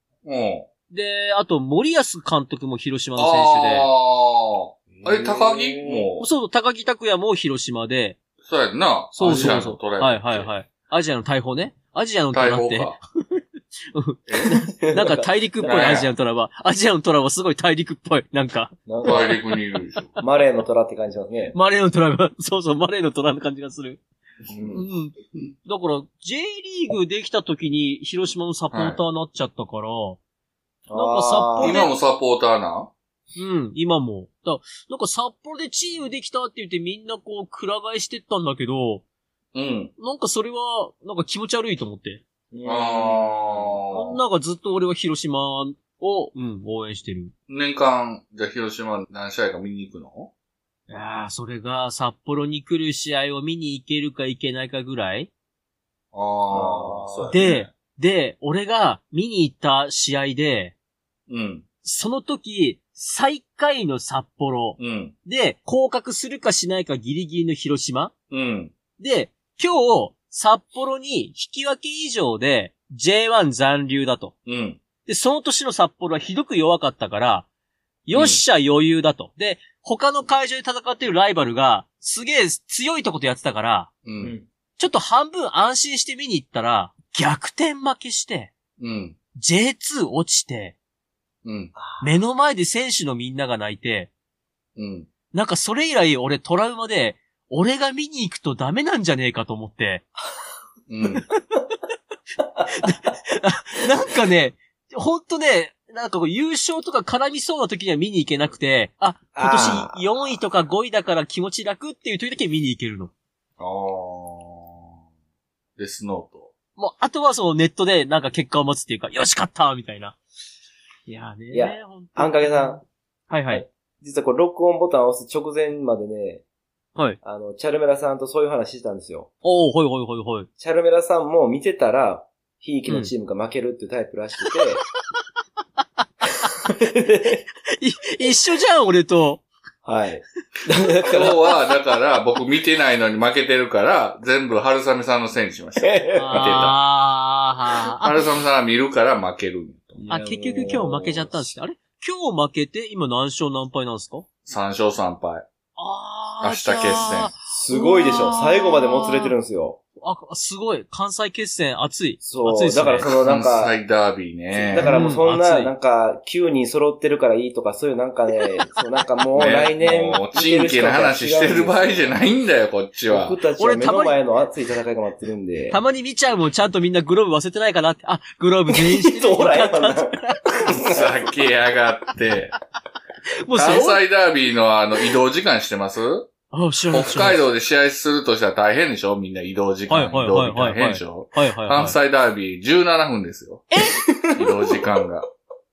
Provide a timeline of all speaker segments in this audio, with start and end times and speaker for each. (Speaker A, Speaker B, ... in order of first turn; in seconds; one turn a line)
Speaker A: 0.2-0.7
Speaker B: 0.9-3.9
Speaker A: 3.2-6.2
Speaker C: 4.9-6.1
Speaker B: 6.2-8.2
Speaker A: 8.4-10.5
Speaker B: 9.1-13.4
Speaker C: 9.3-9.7
Speaker A: 12.3-13.0
Speaker B: 13.9-19.4
Speaker A: 14.3-14.6
Speaker C: 14.8-16.1
Speaker A: 15.7-16.1
Speaker C: 18.9-19.4
Speaker A: 19.0-20.1
Speaker C: 20.2-21.5
Speaker B: 21.5-24.0
Speaker C: 24.5-24.8
Speaker B: 24.7-30.2
Speaker A: 28.7-29.0
Speaker C: 30.9-31.8
Speaker B: 30.9-31.9
Speaker A: 31.6-32.9
Speaker B: 33.4-39.0
Speaker A: 39.5-39.9
Speaker B: 40.0-42.2
Speaker C: 42.5-43.8
Speaker A: 42.6-44.2
Speaker B: 43.9-47.3
Speaker A: 47.5-50.3
Speaker B: 50.9-55.3
Speaker A: 56.1-57.6
Speaker C: 56.5-57.4
Speaker B: 57.3-60.7
Speaker A: 61.3-61.6
Speaker B: 61.8-68.1
Speaker A: 64.8-65.1
Speaker A: 68.3-68.7
Speaker B: 69.0-74.3
Speaker A: 74.5-74.8
Speaker B: 75.0-77.5
Speaker B: 78.1-83.9
Speaker A: 78.1-78.4
Speaker A: 84.0-84.3
Speaker C: 84.2-84.5
Speaker B: 84.8-88.5
Speaker A: 88.8-89.2
Speaker B: 89.3-90.8
Speaker A: 91.4-91.7
Speaker C: 91.7-92.1
Speaker B: 92.0-94.1
Speaker A: 94.8-95.1
Speaker B: 95.3-100.1
Speaker A: 100.9-101.2
Speaker B: 102.7-113.1
Speaker C: 109.3-110.2
Speaker A: 113.6-114.9
Speaker A: 115.8-116.5
Speaker B: 116.8-120.2
Speaker B: 121.0-123.6
Speaker C: 121.5-122.8
Speaker C: 123.5-126.4
Speaker C: 127.2-129.3
Speaker B: 129.4-130.5
Speaker C: 130.6-134.8
Speaker C: 136.8-137.4
Speaker B: 137.8-139.4
Speaker C: 139.8-141.4
Speaker A: 141.0-146.8
Speaker C: 145.8-146.7
Speaker B: 146.1-148.2
Speaker A: 147.8-150.0
Speaker C: 149.9-151.5
Speaker B: 150.1-154.2
Speaker A: 154.4-155.4
Speaker B: 155.8-159.3
Speaker A: 156.4-157.3
Speaker C: 157.4-159.8
Speaker B: 160.0-163.2
Speaker C: 162.2-163.8
Speaker A: 163.1-164.9
Speaker C: 164.5-172.2
Speaker B: 164.8-165.7
Speaker A: 169.3-173.4
Speaker C: 173.1-175.8
Speaker B: 173.6-174.2
Speaker B: 175.7-180.4
Speaker C: 178.7-181.3
Speaker A: 180.6-182.6
Speaker B: 183.4-184.0
Speaker A: 183.5-186.3
Speaker B: 186.5-187.4
Speaker A: 186.9-193.7
Speaker B: 189.9-192.0
Speaker B: 193.7-194.0
Speaker C: 193.8-194.8
Speaker A: 194.3-195.2